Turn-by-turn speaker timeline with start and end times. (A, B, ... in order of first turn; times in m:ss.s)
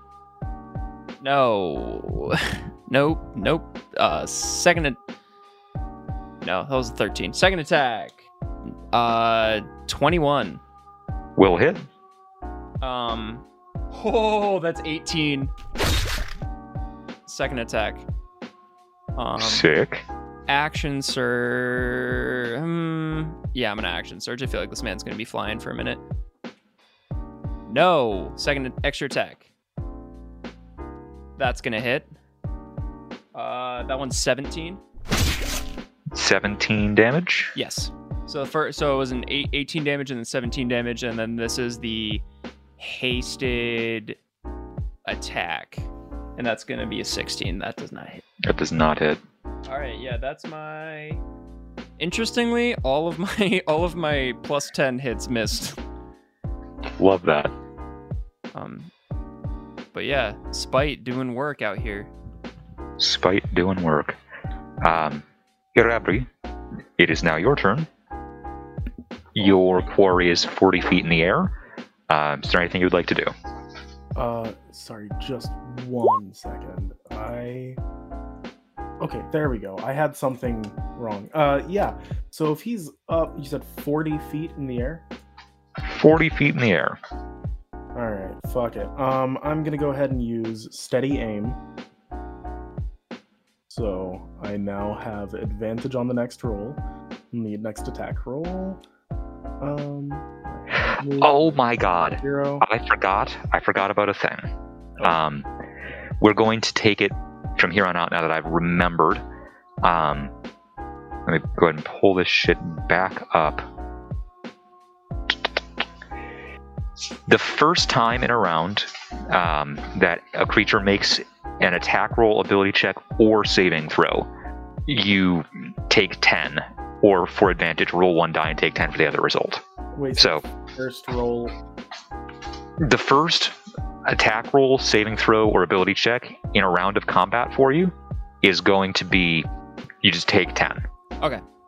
0:01.2-0:05.0 A
0:06.4-0:08.2 A
0:08.9-0:10.6 A
0:11.4-0:11.8 B
0:12.8-0:15.5 A
0:17.2-0:18.0 A
0:19.2-0:19.6 A
0:19.4-0:20.0 B
0:20.5-0:26.0 A
0:27.7-0:29.4 A
0:31.4-0:32.1 A
0:33.3-0:34.8 A
0:36.1-0:37.5 B
0:37.5-0:42.2 A
0:42.8-0:44.2 A
0:45.0-0:48.2 A
0:48.4-0:49.2 B
0:49.7-0:51.2 A
0:52.0-0:55.8 A
0:57.0-0:57.5 B
0:58.5-0:58.9 A
0:59.9-1:02.1 A
1:03.0-1:04.2 B
1:04.8-1:06.3 B
1:07.0-1:07.9 B
1:09.3-1:11.5 B
1:12.1-1:13.3 B
1:14.2-1:17.8 C
1:19.0-1:25.0 C
1:25.8-1:27.0 B
1:27.9-1:31.6 C
1:33.7-1:36.8 C
1:37.3-1:38.8 C
1:39.6-1:42.6 C
1:41.2-1:44.5 B
1:45.0-1:45.5 B
1:46.2-1:49.2 B
1:49.8-1:50.3 B
1:51.2-1:53.7 B
1:55.3-1:55.6 B
1:57.3-2:04.3 B
2:04.9-2:09.6 B
2:10.0-2:11.6 C
2:10.2-2:10.4 B
2:12.8-2:19.5 B
2:20.0-2:20.8 B